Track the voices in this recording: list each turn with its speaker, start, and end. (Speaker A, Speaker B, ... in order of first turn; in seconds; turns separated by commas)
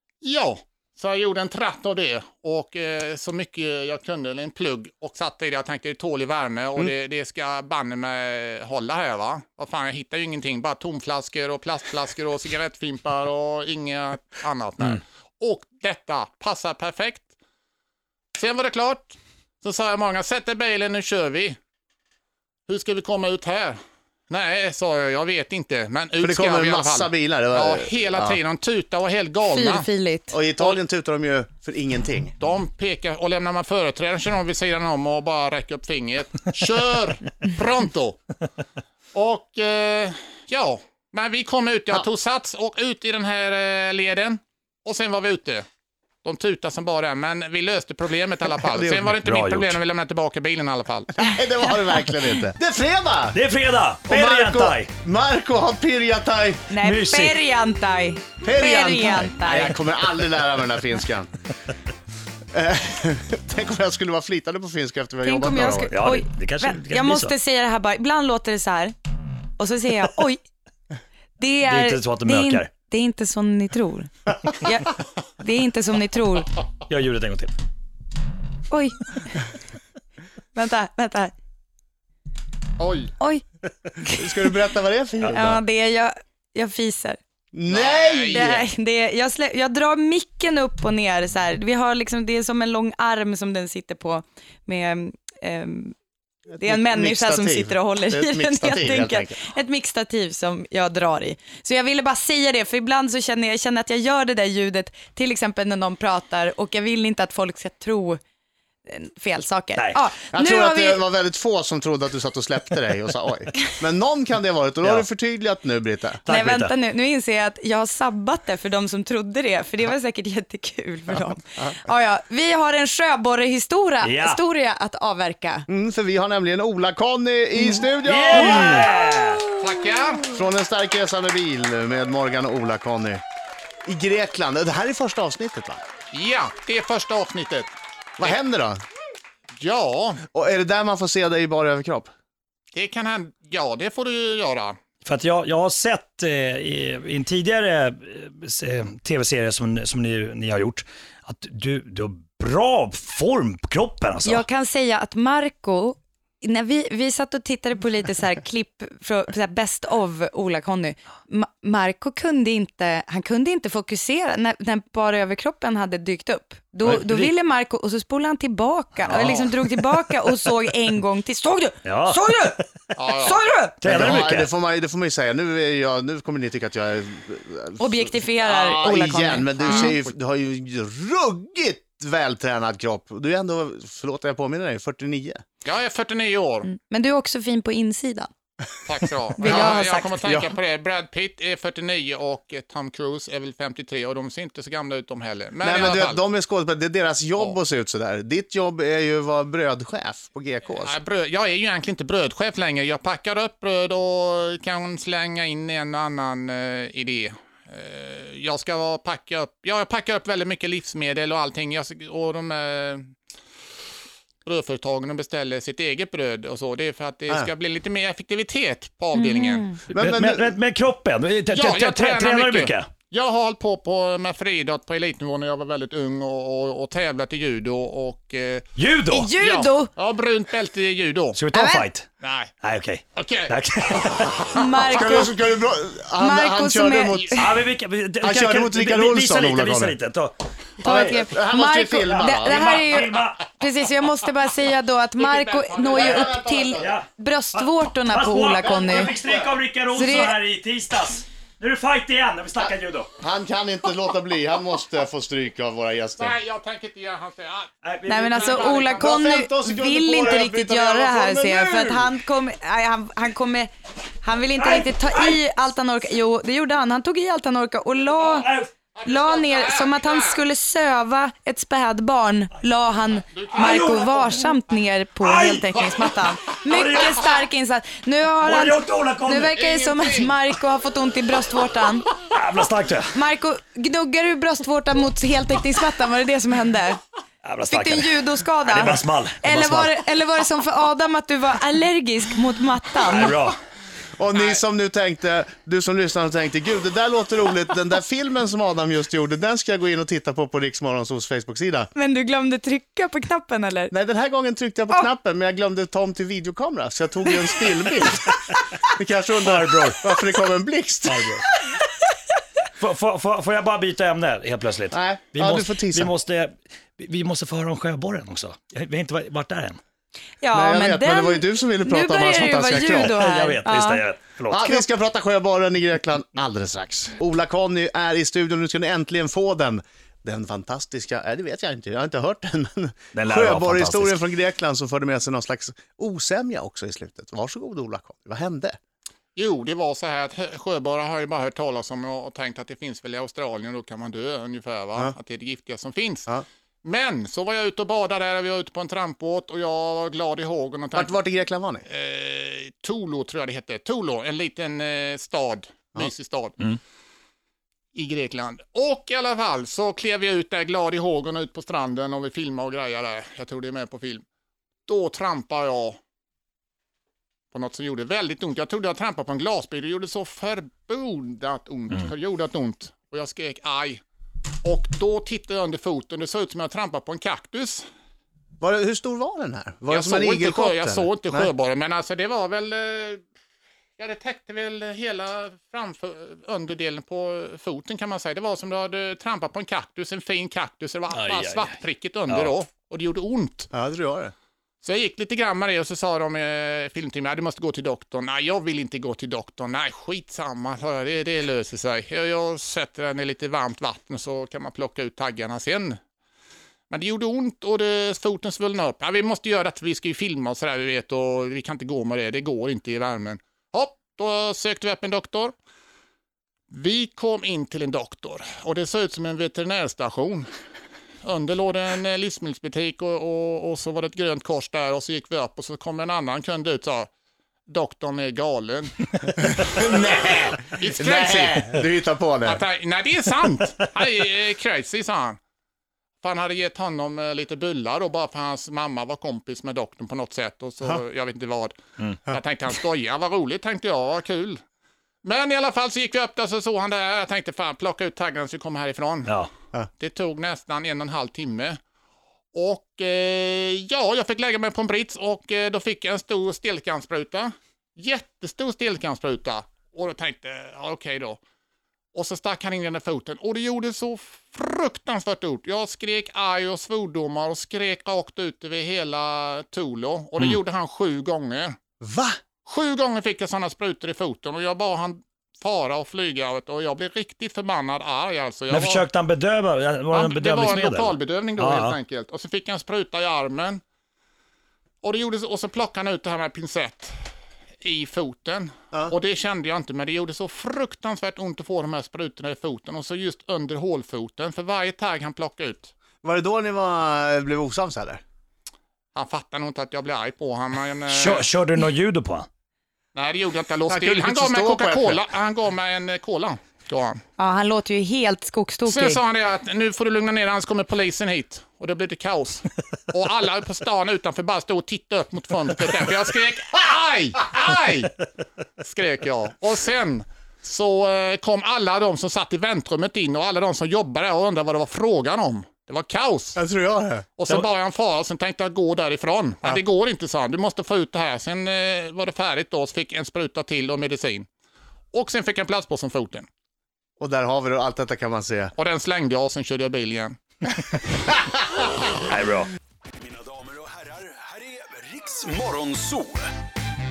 Speaker A: 0.2-17.3, Speaker A: 18.4-21.6, Speaker A: 22.7-29.9, Speaker B: 26.2-28.4, Speaker C: 29.5-30.4, Speaker B: 30.3-32.4, Speaker A: 32.4-38.2, Speaker A: 39.1-45.7, Speaker A: 46.2-51.1, Speaker B: 48.6-49.1, Speaker D: 49.1-49.8, Speaker B: 51.2-53.4, Speaker D: 53.3-54.9, Speaker B: 54.1-56.7, Speaker C: 56.7-59.8, Speaker D: 56.8-57.4, Speaker B: 58.4-61.3, Speaker B: 62.5-65.9, Speaker C: 65.2-68.9, Speaker D: 65.9-67.3, Speaker C: 69.6-70.4, Speaker C: 71.4-76.5, Speaker D: 71.7-72.7, Speaker D: 76.9-77.5, Speaker C: 78.7-79.4, Speaker C: 80.5-81.3, Speaker A: 82.8-83.1, Speaker C: 84.0-84.3, Speaker B: 84.2-85.6, Speaker C: 85.3-87.2, Speaker B: 87.5-88.7, Speaker A: 87.7-88.6, Speaker C: 88.3-96.0, Speaker B: 96.5-99.5, Speaker C: 96.6-108.2, Speaker C: 108.9-111.0, Speaker D: 109.8-110.0, Speaker B: 110.3-116.2, Speaker D: 116.3-116.7, Speaker C: 116.3-125.7, Speaker D: 124.0-124.4, Speaker B: 125.7-128.9, Speaker D: 128.1-129.5, Speaker A: 129.6-130.2, Speaker B: 130.3-133.2, Speaker B: 133.8-135.8, Speaker A: 136.1-138.4, Speaker B: 138.2-138.8, Speaker A: 139.6-140.2, Speaker B: 140.3-142.1, Speaker A: 142.7-144.8, Speaker D: 145.1-154.4, Speaker C: 154.2-172.6, Speaker D: 166.8-167.3, Speaker D: 169.0-169.7, Speaker A: 169.1-169.5, Speaker D: 171.8-172.3, Speaker A: 172.9-173.4, Speaker C: 173.2-173.8, Speaker D: 173.8-174.5, Speaker B: 173.8-185.4, Speaker C: 177.8-179.9, Speaker A: 179.6-180.1, Speaker A: 185.6-186.7, Speaker C: 186.7-188.3, Speaker A: 188.8-196.2, Speaker C: 189.4-190.3, Speaker B: 189.4-190.5, Speaker B: 195.6-201.0, Speaker A: 200.8-213.1, Speaker A: 214.4-219.7, Speaker C: 219.1-219.8, Speaker B: 219.9-220.5, Speaker D: 219.9-222.9, Speaker A: 221.5-228.7, Speaker D: 228.8-229.3, Speaker C: 229.1-229.9, Speaker A: 229.4-231.4, Speaker D: 231.3-232.1, Speaker C: 231.5-231.9, Speaker A: 232.2-232.5, Speaker D: 232.6-234.5, Speaker A: 233.2-234.4, Speaker C: 234.5-235.3, Speaker B: 234.9-237.3, Speaker C: 236.2-237.5, Speaker D: 237.4-240.3, Speaker B: 238.2-240.0, Speaker C: 240.8-249.1, Speaker B: 240.8-242.6, Speaker D: 242.2-243.4, Speaker A: 245.2-246.5, Speaker B: 245.9-246.9, Speaker D: 246.8-253.1, Speaker B: 248.7-249.5, Speaker C: 249.9-250.4, Speaker B: 253.2-256.4, Speaker A: 256.2-257.7, Speaker D: 257.8-258.9, Speaker C: 258.1-263.7, Speaker A: 258.2-259.1, Speaker B: 259.0-262.1, Speaker C: 264.2-268.5, Speaker D: 264.6-265.4, Speaker D: 268.3-268.7, Speaker A: 268.9-270.4, Speaker C: 269.1-282.1, Speaker A: 273.3-274.3, Speaker D: 273.6-274.4, Speaker D: 275.2-276.1, Speaker D: 276.7-277.3, Speaker D: 278.4-279.6, Speaker A: 279.6-280.3, Speaker D: 282.3-283.1, Speaker C: 283.1-287.0, Speaker D: 287.4-289.9, Speaker C: 287.7-293.4, Speaker D: 293.1-293.6, Speaker B: 294.2-301.9, Speaker A: 294.3-294.6, Speaker C: 301.9-303.9, Speaker B: 303.9-308.4, Speaker B: 308.9-311.4, Speaker D: 309.5-310.0, Speaker D: 311.1-311.4, Speaker D: 312.8-319.8, Speaker B: 314.9-316.1, Speaker C: 320.4-324.0, Speaker B: 320.5-323.2, Speaker D: 323.1-324.8, Speaker B: 324.5-338.8, Speaker D: 333.1-334.2, Speaker A: 339.4-351.1, Speaker B: 350.9-351.9, Speaker A: 351.9-356.7, Speaker A: 357.9-364.2, Speaker A: 364.9-366.0, Speaker A: 367.5-374.0, Speaker A: 374.6-377.9, Speaker B: 378.6-381.5, Speaker A: 379.9-383.2, Speaker A: 384.0-393.7, Speaker D: 391.1-391.7, Speaker D: 392.3-392.5, Speaker B: 393.7-394.3, Speaker A: 394.8-406.0, Speaker A: 406.9-415.6, Speaker A: 416.7-420.5, Speaker A: 421.2-427.1, Speaker A: 427.7-428.9, Speaker B: 429.4-432.6, Speaker A: 429.8-430.1, Speaker A: 430.6-431.7, Speaker A: 432.4-435.4, Speaker A: 436.2-444.6, Speaker A: 445.2-449.3, Speaker A: 450.0-451.8, Speaker A: 452.5-461.4, Speaker A: 462.1-471.8, Speaker B: 472.0-472.4, Speaker A: 472.7-479.1, Speaker D: 478.7-482.0, Speaker A: 480.1-483.8, Speaker A: 485.0-487.2, Speaker A: 487.8-495.9, Speaker B: 496.2-498.2, Speaker A: 499.1-501.5, Speaker D: 501.1-502.5, Speaker A: 503.1-507.2, Speaker B: 503.9-505.2, Speaker C: 507.4-509.2, Speaker A: 508.9-518.2, Speaker A: 518.8-526.6, Speaker B: 526.6-527.3, Speaker A: 527.4-534.5, Speaker A: 535.1-536.5, Speaker B: 537.2-538.7, Speaker A: 538.8-540.4, Speaker D: 542.3-542.7, Speaker E: 543.2-546.5